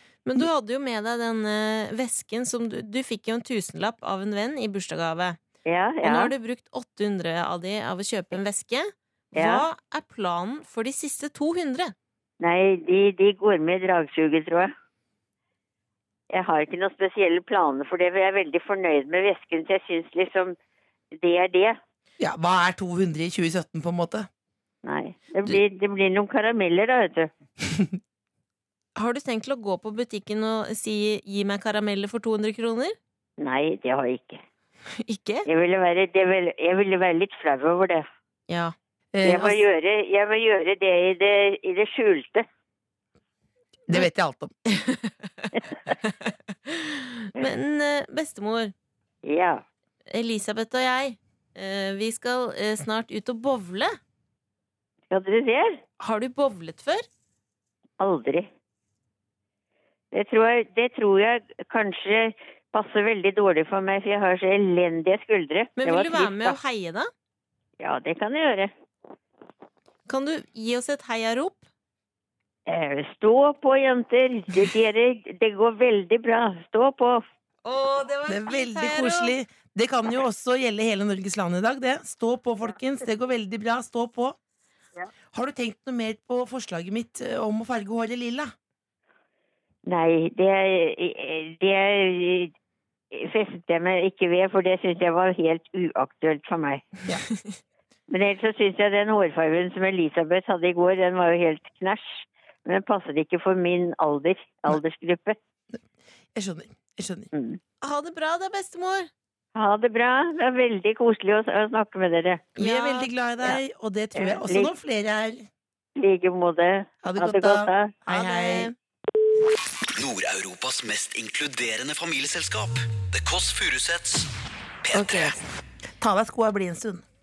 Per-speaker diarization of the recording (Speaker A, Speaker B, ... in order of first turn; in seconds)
Speaker A: 0.2-5.4, 6.0-11.9, 29.0-33.0, 35.0-35.5, 38.5-38.8, 44.7-48.7, 50.1-54.0, 56.0-57.1, 65.8-67.1, 70.1-71.6, 77.7-79.3, 107.8-109.1, 112.6-113.6, 118.1-118.7, 124.9-125.4
Speaker B: 5.7-6.3, 9.4-9.7, 12.4-14.7, 16.3-20.6, 21.2-21.8, 24.8-27.3, 33.4-34.4, 35.5-38.1, 39.2-42.5, 49.2-49.6, 55.1-55.8, 58.0-58.5, 60.1-66.6, 67.8-68.7, 72.7-77.2, 89.9-92.5, 93.1-96.9, 98.1-105.4, 107.3-107.6, 109.5-112.5, 114.2-114.7, 116.0-117.9
Speaker C: 22.2-24.3, 39.1-39.6, 43.9-44.5, 78.3-84.4, 85.3-88.5, 106.3-107.3, 112.6-115.5, 117.0-118.7, 126.0-127.0
Speaker D: 119.9-124.3, 124.8-125.4